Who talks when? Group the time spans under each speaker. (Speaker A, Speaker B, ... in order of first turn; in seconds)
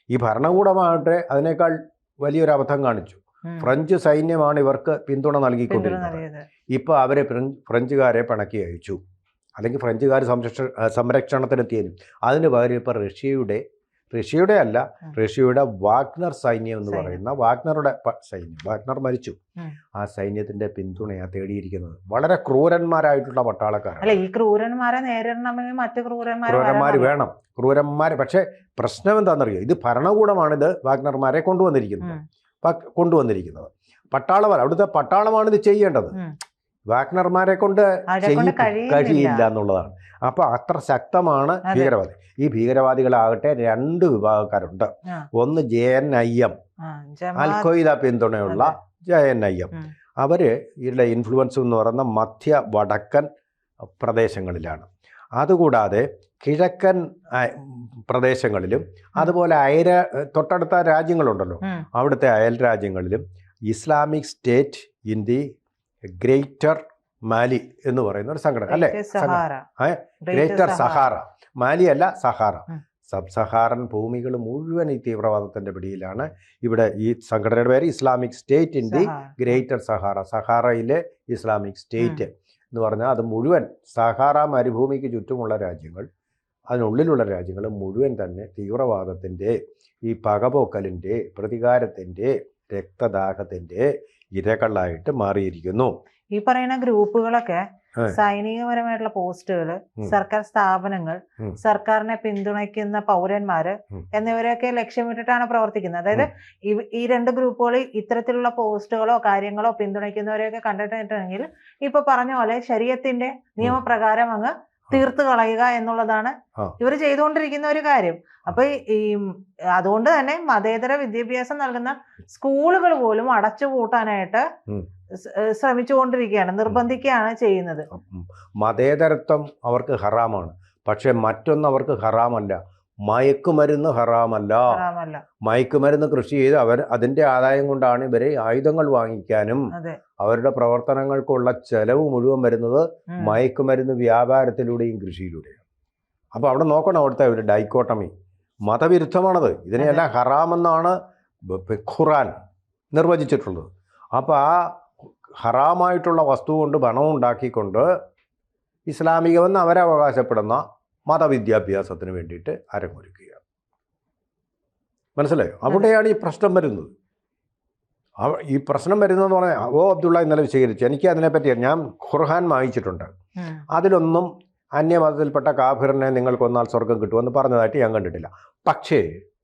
Speaker A: 0.1-9.0, 9.6-19.4, 20.0-24.2, 26.5-36.1, 36.9-46.5, 47.4-53.3, 54.0-65.5, 66.2-86.1, 86.7-95.9, 127.9-134.8, 135.4-139.6, 140.2-145.6, 146.3-148.1, 148.7-152.3, 152.9-154.8, 155.4-157.9, 158.9-163.4, 165.2-166.9, 168.2-173.1, 173.7-179.0
Speaker B: 5.7-6.5, 16.9-17.2, 24.0-27.1, 38.1-39.5, 41.6-41.9, 46.8-47.7, 48.5-48.7, 68.7-69.7, 70.2-71.1, 78.8-79.6, 82.0-82.2, 96.3-124.5, 125.2-127.9, 134.7-135.2, 139.7-140.0, 143.1-143.4, 149.8-150.1